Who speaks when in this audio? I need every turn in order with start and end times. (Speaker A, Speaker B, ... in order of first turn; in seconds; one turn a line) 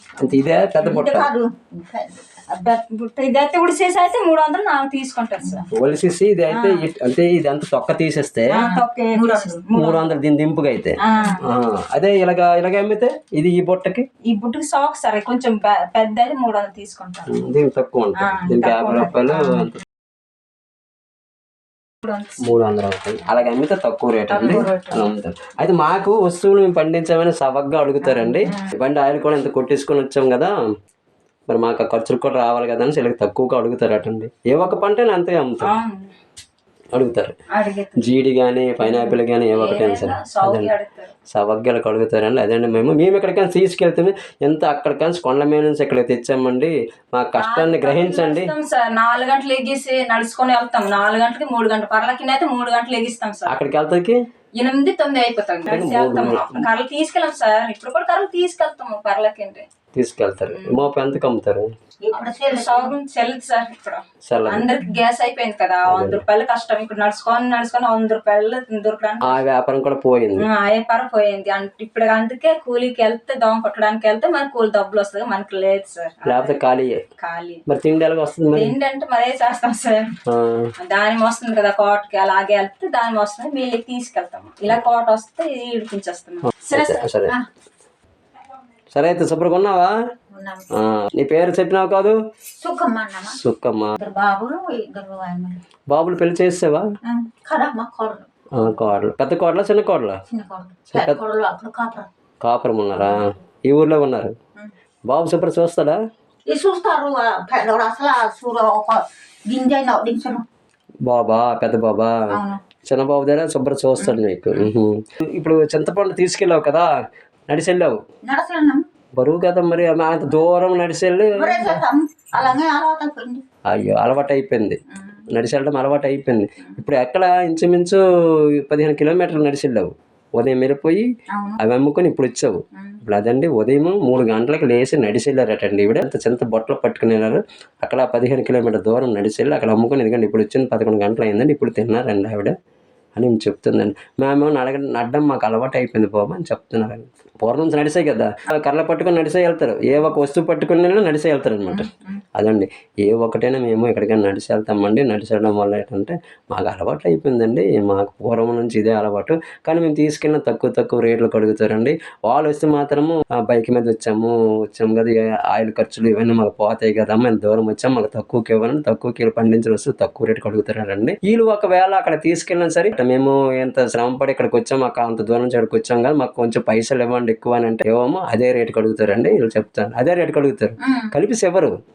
Speaker A: 0.2-1.3
Speaker B: 0.8-1.2
Speaker C: 0.8-2.4
Speaker B: 2.5-5.7
Speaker A: 5.7-8.6
Speaker B: 6.5-6.9
Speaker B: 8.5-10.0
Speaker C: 8.6-9.7
Speaker A: 9.7-14.0
Speaker B: 11.0-11.4
Speaker B: 14.3-17.4
Speaker A: 17.3-19.8
Speaker B: 18.2-19.6
Speaker B: 22.0-22.6
Speaker A: 22.4-30.5
Speaker C: 24.3-25.0
Speaker C: 28.0-28.7
Speaker A: 31.5-35.7
Speaker B: 35.6-36.1
Speaker A: 36.9-37.3
Speaker B: 37.5-38.1
Speaker A: 38.0-40.7
Speaker B: 38.8-41.1
Speaker A: 41.3-48.5
Speaker B: 47.4-53.6
Speaker A: 53.5-54.2
Speaker B: 54.6-59.6
Speaker A: 55.7-56.7
Speaker A: 59.9-61.7
Speaker B: 60.5-60.9
Speaker C: 62.0-62.9
Speaker B: 62.5-69.4
Speaker A: 64.2-64.7
Speaker A: 65.9-66.2
Speaker A: 69.2-70.5
Speaker B: 70.4-76.6
Speaker A: 76.3-77.0
Speaker B: 77.2-77.6
Speaker A: 77.7-78.7
Speaker B: 78.5-80.1
Speaker A: 80.3-80.7
Speaker B: 80.8-87.1
Speaker A: 86.5-87.3
Speaker A: 88.9-89.9
Speaker C: 90.3-90.7
Speaker A: 90.8-92.2
Speaker C: 92.6-93.4
Speaker A: 93.3-94.0
Speaker C: 94.0-95.6
Speaker A: 95.9-96.8
Speaker C: 97.1-98.3
Speaker A: 98.5-100.2
Speaker C: 100.3-102.1
Speaker A: 100.9-101.2
Speaker A: 102.4-104.3
Speaker C: 103.0-103.4
Speaker A: 105.1-106.0
Speaker C: 106.5-110.4
Speaker A: 111.0-112.3
Speaker C: 112.3-112.6
Speaker A: 112.8-116.9
Speaker A: 117.5-118.0
Speaker C: 118.2-118.8
Speaker A: 119.2-121.8
Speaker C: 121.3-123.4
Speaker A: 123.7-128.0
Speaker C: 124.9-125.2
Speaker A: 128.6-131.0
Speaker C: 131.3-131.6
Speaker A: 131.6-142.5
Speaker C: 132.8-133.0
Speaker A: 143.2-181.7
Speaker C: 151.7-152.2
Speaker C: 180.8-181.1